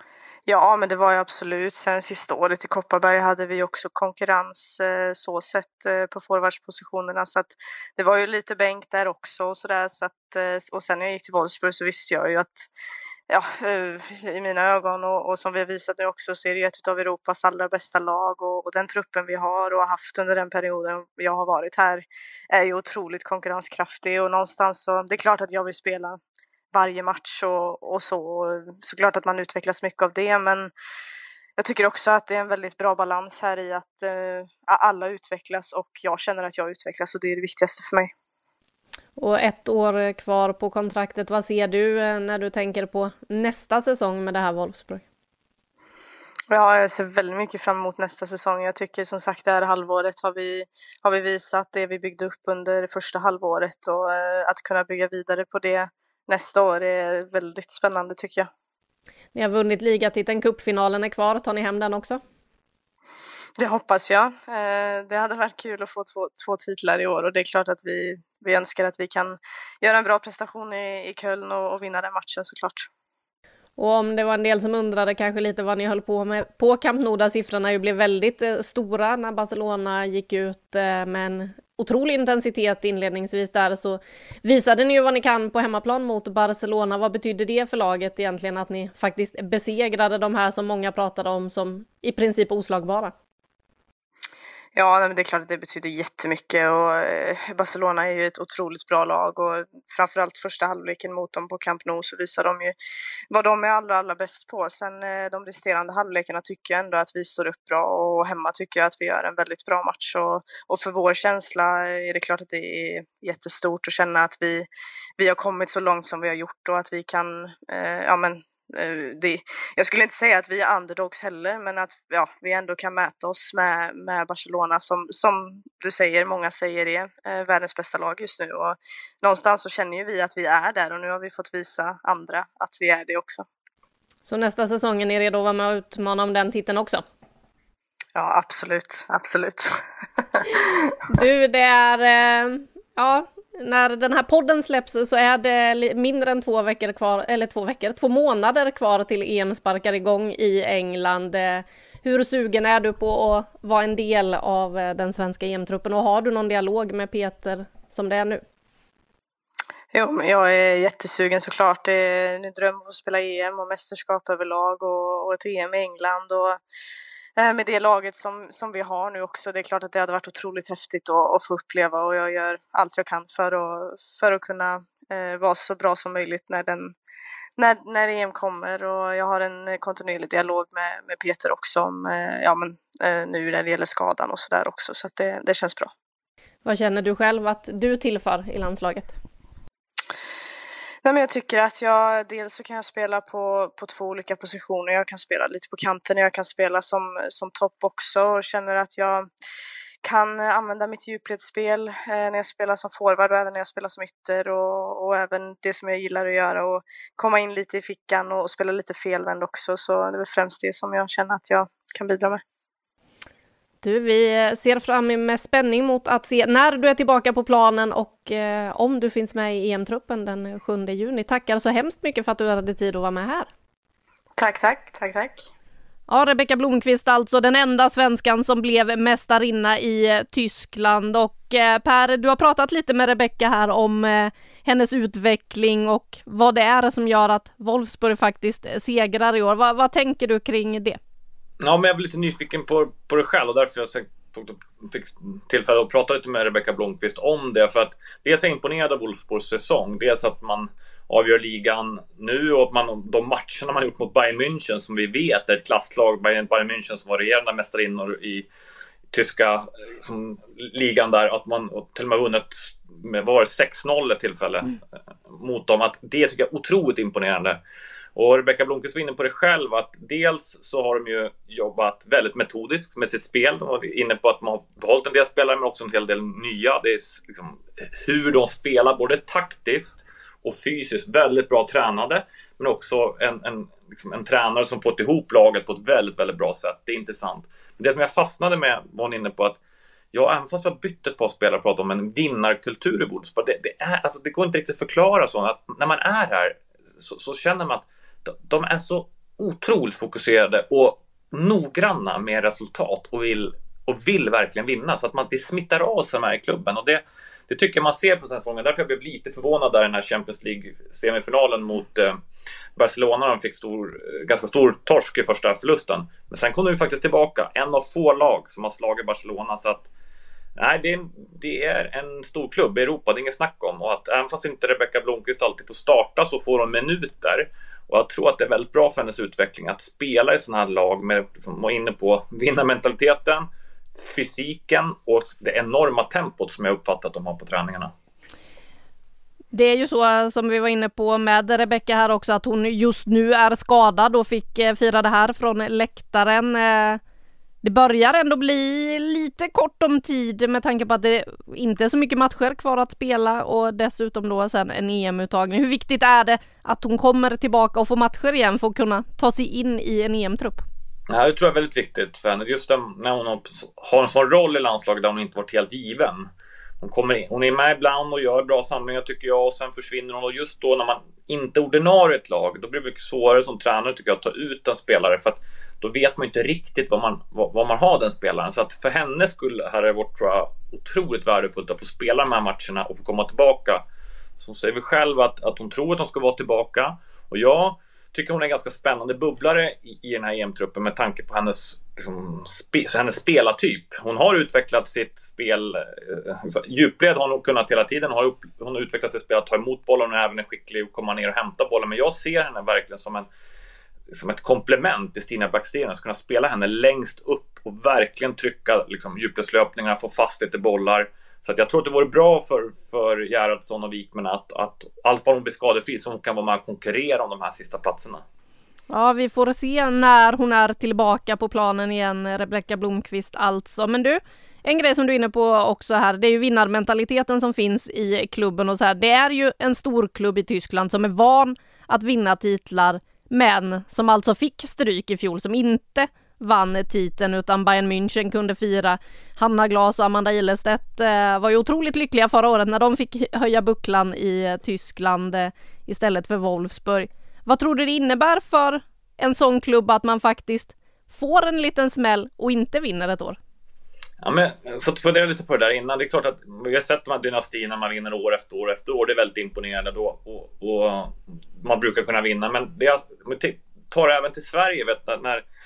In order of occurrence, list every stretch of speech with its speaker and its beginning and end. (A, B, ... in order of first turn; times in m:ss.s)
0:00.5-0:12.7 A
0:13.3-0:26.2 A
0:26.7-0:30.7 A
0:31.6-0:38.1 A
0:39.2-0:45.0 B
0:46.5-0:58.5 A
0:59.3-1:02.2 B
1:03.6-1:12.9 A
1:13.8-1:33.1 B
1:34.8-1:42.7 A
1:43.3-1:54.7 A
1:55.2-2:13.4 A
2:14.2-2:17.0 B
2:18.1-2:20.4 A
2:20.9-2:38.4 B
2:39.9-2:46.6 A
2:47.4-2:56.9 A
2:57.6-3:05.9 A
3:06.6-3:09.1 B
3:11.0-3:19.3 A
3:20.0-3:32.4 A
3:33.8-3:43.5 B
3:44.4-3:45.4 A
3:46.1-4:01.0 B
4:01.6-4:18.5 C
4:19.1-4:27.6 C
4:28.1-4:49.6 C
4:50.1-5:12.2 C
5:12.8-5:19.9 C
5:20.6-5:37.9 C
5:39.5-5:47.0 B
5:47.6-6:00.6 B
6:01.1-6:06.3 C
6:06.8-6:23.8 C
6:24.4-6:43.3 C
6:44.1-6:58.2 C
6:58.9-7:33.4 B
7:34.2-7:45.4 C